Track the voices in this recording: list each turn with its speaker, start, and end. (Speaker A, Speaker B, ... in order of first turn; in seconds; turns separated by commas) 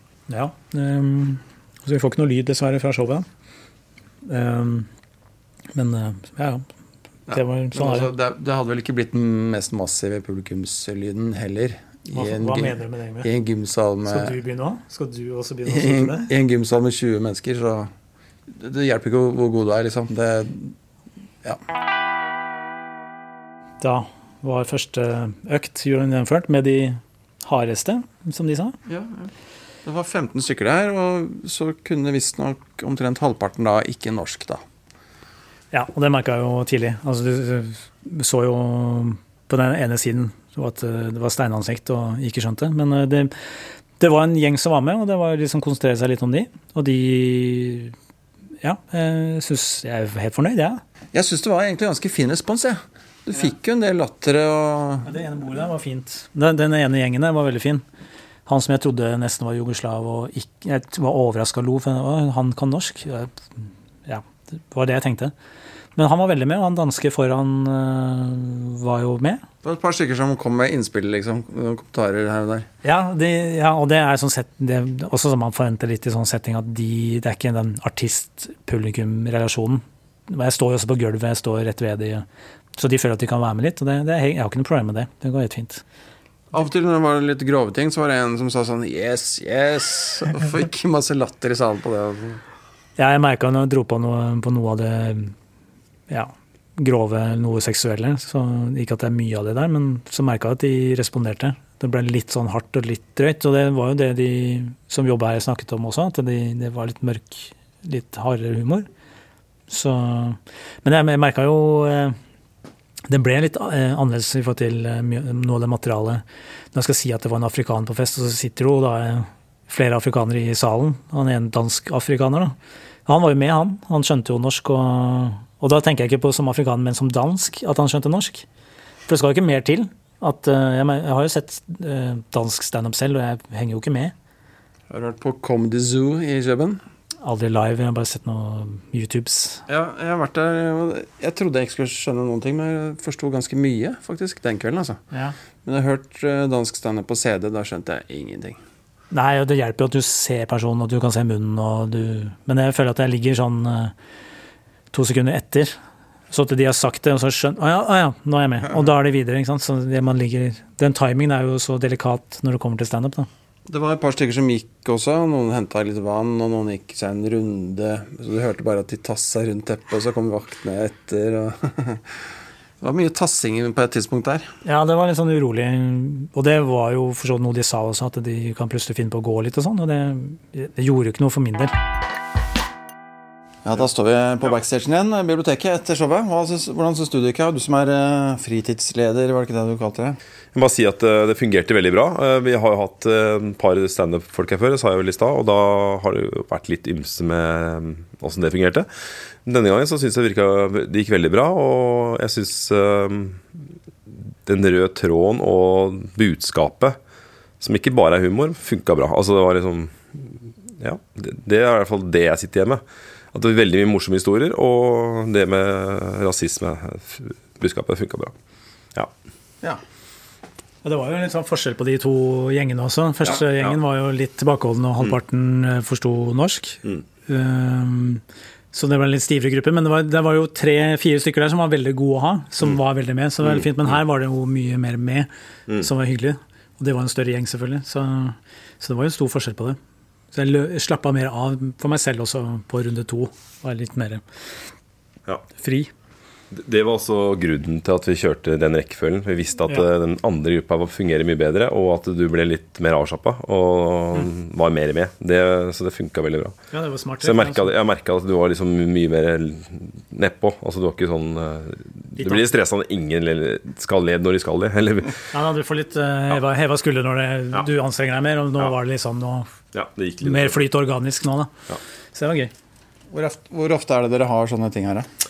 Speaker A: 0.3-3.2, Speaker A: 4.2-4.9, Speaker A: 5.7-6.7, Speaker B: 7.3-14.3, Speaker A: 7.3-8.1, Speaker A: 12.1-13.3, Speaker A: 14.1-16.3, Speaker B: 15.7-17.9, Speaker B: 18.5-20.8, Speaker A: 23.8-28.8, Speaker B: 28.9-29.3, Speaker B: 29.8-34.6, Speaker A: 35.7-43.3, Speaker A: 44.0-47.9, Speaker A: 48.6-50.8, Speaker B: 51.1-55.1, Speaker A: 55.0-57.8, Speaker A: 58.5-65.3, Speaker A: 66.0-69.4, Speaker B: 69.6-72.7, Speaker A: 72.8-85.8, Speaker B: 86.5-92.4, Speaker A: 93.0-95.3, Speaker A: 96.1-108.9, Speaker A: 109.7-112.2, Speaker A: 113.1-122.5, Speaker A: 123.0-128.4, Speaker A: 129.1-134.1, Speaker B: 134.9-136.8, Speaker A: 137.2-139.6, Speaker B: 139.7-145.0, Speaker B: 145.6-148.6, Speaker A: 149.1-153.9, Speaker A: 154.9-155.8, Speaker A: 156.3-163.3, Speaker B: 163.7-172.1, Speaker B: 172.8-174.5, Speaker A: 174.6-181.7, Speaker B: 183.6-190.2, Speaker C: 190.5-198.9, Speaker C: 199.4-203.4, Speaker C: 204.4-207.0, Speaker C: 207.6-212.8, Speaker C: 213.3-218.3, Speaker A: 220.8-239.8, Speaker C: 223.3-223.7, Speaker A: 240.3-244.2, Speaker A: 245.6-245.9, Speaker C: 246.5-256.6, Speaker A: 256.7-257.7, Speaker C: 257.2-265.3, Speaker A: 262.2-262.5, Speaker A: 265.3-269.5, Speaker C: 269.7-270.6, Speaker A: 270.2-271.5, Speaker A: 272.1-272.5, Speaker B: 273.1-275.1